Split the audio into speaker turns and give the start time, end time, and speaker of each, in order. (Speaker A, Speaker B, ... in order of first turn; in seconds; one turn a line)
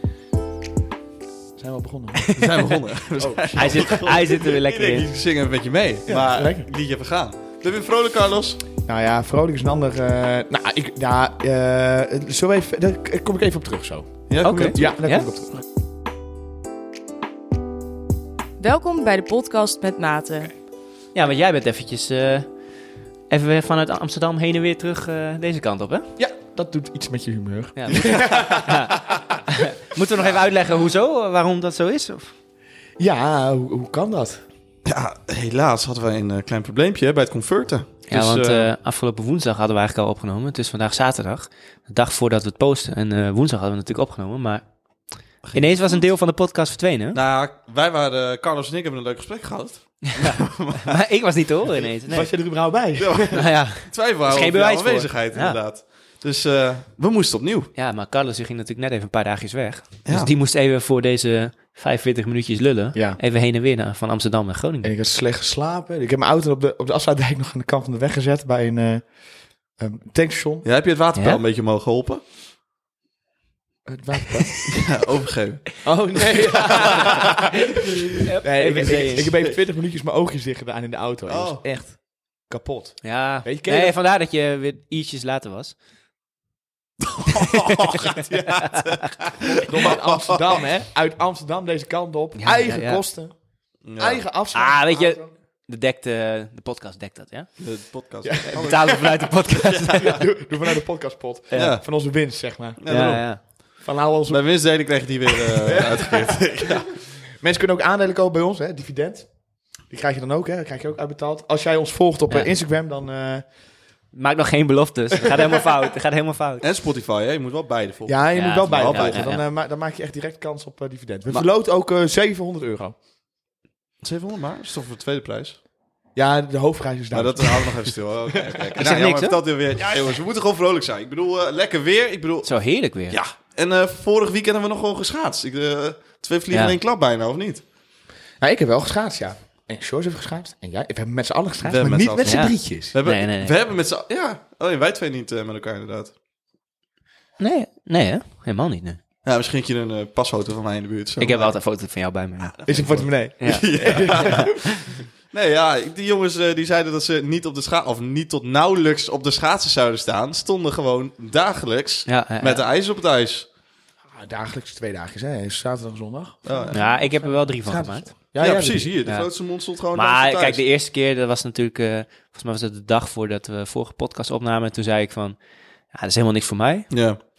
Speaker A: 1.6-2.4
Speaker B: 2.2-2.6
Speaker C: 2.3-8.6
Speaker A: 3.2-4.0
Speaker B: 3.5-5.1
Speaker A: 6.1-6.7
Speaker A: 8.8-15.5
Speaker C: 14.3-14.9
Speaker B: 14.4-15.3
Speaker D: 18.6-20.5
Speaker B: 21.1-22.5
Speaker B: 23.3-26.1
Speaker A: 26.2-28.9
Speaker B: 27.8-28.9
Speaker C: 27.9-29.2
Speaker B: 29.5-32.3
Speaker A: 33.0-34.4
Speaker C: 34.8-38.7
Speaker B: 38.1-44.7
Speaker C: 45.4-46.0
Speaker B: 45.5-47.2
Speaker C: 47.1-51.0
Speaker B: 50.0-52.3
Speaker A: 52.0-53.4
Speaker C: 53.0-57.7
Speaker B: 53.3-55.6
Speaker B: 57.7-64.9
Speaker A: 62.9-63.2
Speaker A: 64.8-69.1
Speaker A: 69.8-70.7
Speaker C: 70.6-72.2
Speaker B: 71.2-71.4
Speaker A: 73.8-74.8
Speaker C: 74.7-75.8
Speaker A: 75.8-77.5
Speaker B: 76.1-77.5
Speaker C: 76.6-77.5
Speaker B: 78.2-79.3
Speaker A: 78.4-84.0
Speaker C: 79.2-79.5
Speaker C: 81.3-81.6
Speaker B: 83.0-85.8
Speaker C: 87.0-90.6
Speaker B: 87.3-89.5
Speaker A: 89.6-93.3
Speaker B: 92.3-93.0
Speaker C: 93.8-94.2
Speaker A: 94.0-95.3
Speaker B: 94.5-97.5
Speaker C: 97.6-100.2
Speaker A: 98.2-99.1
Speaker B: 98.4-100.2
Speaker A: 100.0-102.8
Speaker C: 101.5-101.8
Speaker C: 102.8-103.5
Speaker B: 102.9-103.4
Speaker A: 103.8-104.4
Speaker C: 104.3-106.9
Speaker A: 105.6-106.8
Speaker A: 107.4-109.3
Speaker A: 109.9-113.4
Speaker B: 114.1-116.6
Speaker A: 115.2-115.5
Speaker C: 116.6-119.2
Speaker A: 118.0-122.9
Speaker B: 118.3-119.4
Speaker C: 124.0-125.6
Speaker A: 126.1-127.9
Speaker C: 127.1-132.5
Speaker B: 128.8-129.4
Speaker B: 132.4-133.2
Speaker C: 133.1-137.6
Speaker B: 136.5-136.8
Speaker A: 138.4-142.9
Speaker C: 141.6-146.1
Speaker B: 142.2-143.5
Speaker B: 147.4-149.0
Speaker C: 149.2-151.5
Speaker B: 151.2-154.4
Speaker C: 152.4-163.5
Speaker A: 152.7-154.5
Speaker B: 162.1-162.6
Speaker A: 164.1-168.9
Speaker C: 166.4-166.9
Speaker B: 166.7-168.1
Speaker C: 168.4-170.6
Speaker B: 169.9-175.4
Speaker B: 175.9-176.9
Speaker C: 176.9-177.2